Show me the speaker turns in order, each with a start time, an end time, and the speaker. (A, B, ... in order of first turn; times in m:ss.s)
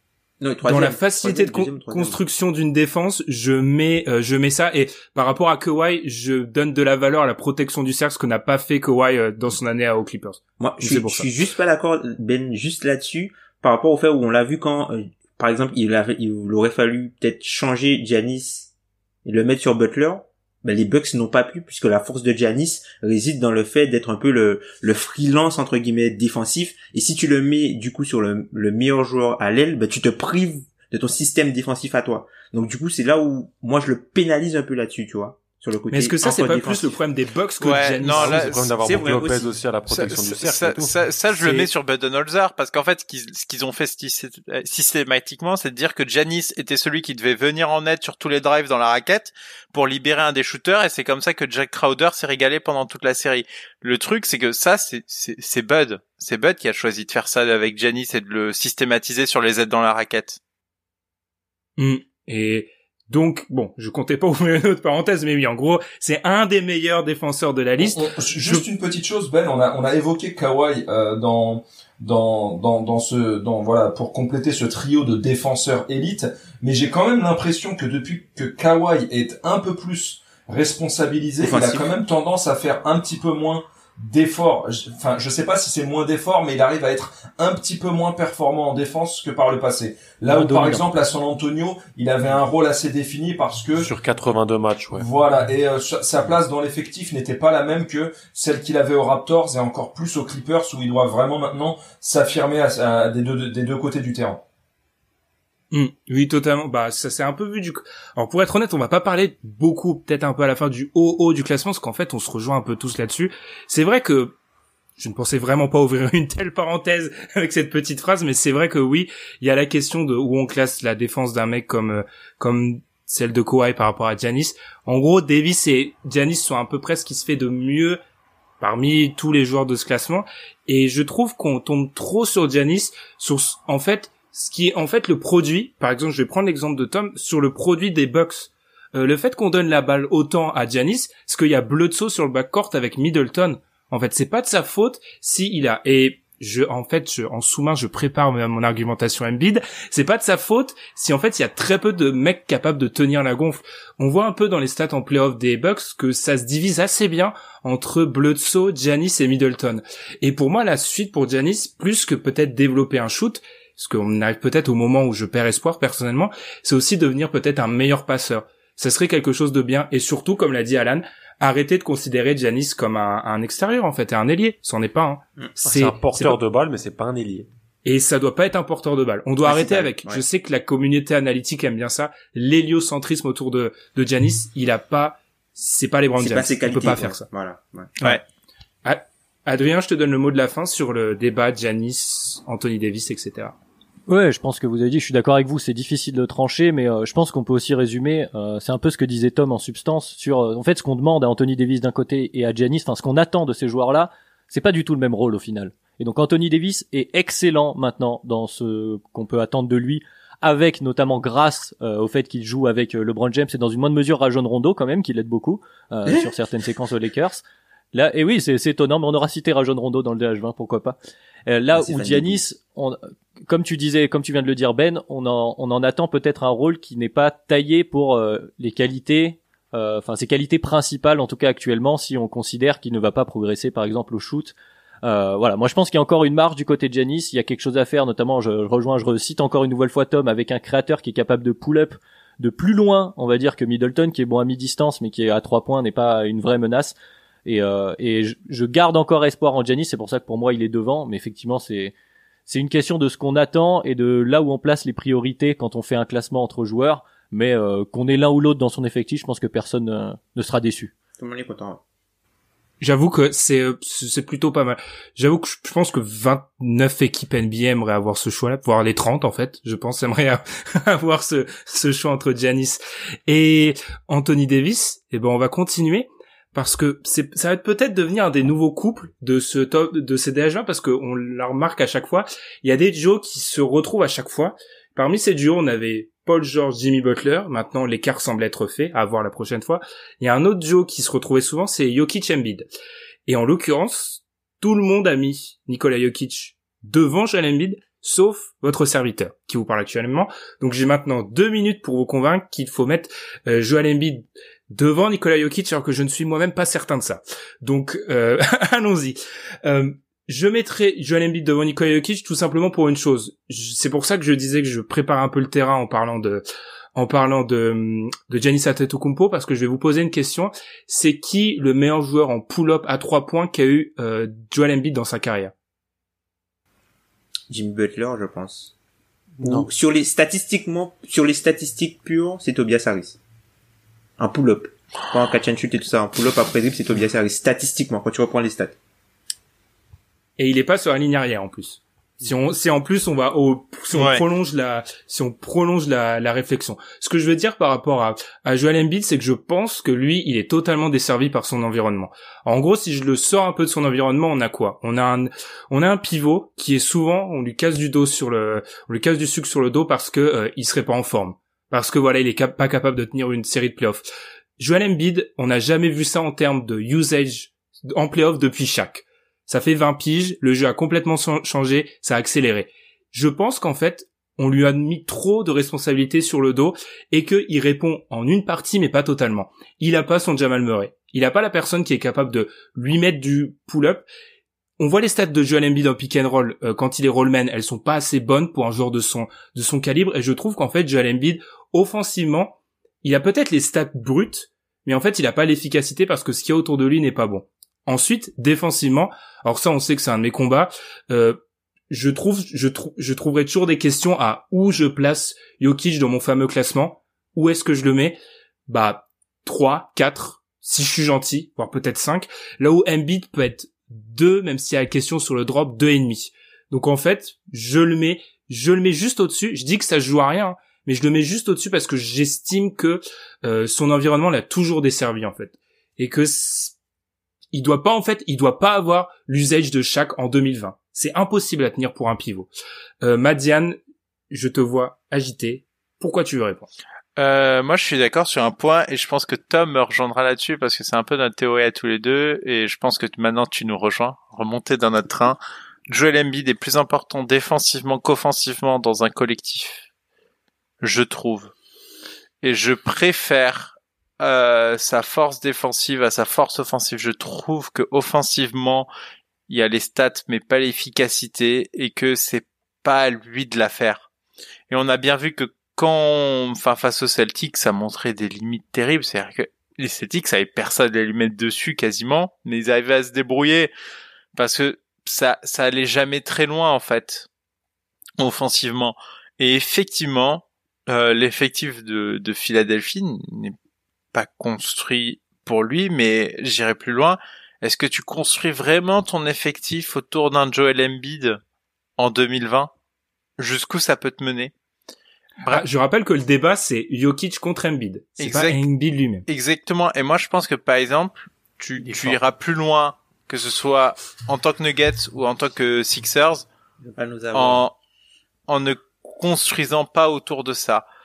0:00.4-0:02.2 A
0:00.6-0:11.3 B
0:10.6-0:18.7 A
0:19.2-0:37.0 A
0:35.9-0:38.6 B
0:37.6-0:38.7 C
0:38.0-0:40.9 D
0:38.8-0:39.5 A
0:39.9-1:00.4 C
1:01.8-1:08.6 B
1:07.8-1:33.9 E
1:21.4-1:21.9 A
1:30.3-1:30.8 F
1:33.8-1:35.0 D
1:34.9-1:44.4 E
1:45.7-1:54.3 B
1:55.0-2:08.0 B
2:08.6-2:56.4 B
2:55.6-2:57.5 D
2:57.8-3:07.2 B
2:59.4-3:00.2 A
3:06.2-3:08.1 A
3:08.0-3:08.2 B
3:08.8-3:13.5 B
3:14.1-4:06.9 F
3:41.7-3:42.4 A
4:07.4-4:11.9 F
4:12.5-4:20.9 F
4:21.2-4:21.8 A
4:22.8-4:52.6 B
4:53.2-5:16.4 B
5:16.9-5:25.5 B
5:27.5-5:28.7 A
5:29.4-5:29.7 D
5:29.4-5:33.2 A
5:34.2-5:38.8 A
5:40.4-6:04.0 B
5:43.9-5:44.2 C
6:04.6-6:24.0 B
6:24.8-6:41.4 B
6:41.9-7:06.7 B
7:07.5-7:12.5 B
7:13.0-7:13.8 B
7:14.3-7:16.7 B
7:17.2-7:29.9 C
7:30.8-7:31.5 C
7:32.4-7:38.9 C
7:39.5-7:44.1 C
7:44.7-7:53.7 C
7:54.3-7:57.3 C
7:58.2-8:03.5 C
8:04.1-8:11.4 C
8:12.0-8:12.7 C
8:13.4-8:14.5 C
8:15.4-8:19.2 B
8:18.2-8:18.6 C
8:19.3-8:26.4 C
8:21.8-8:22.2 D
8:26.8-8:27.7 A
8:27.3-8:27.7 C
8:28.5-8:30.8 C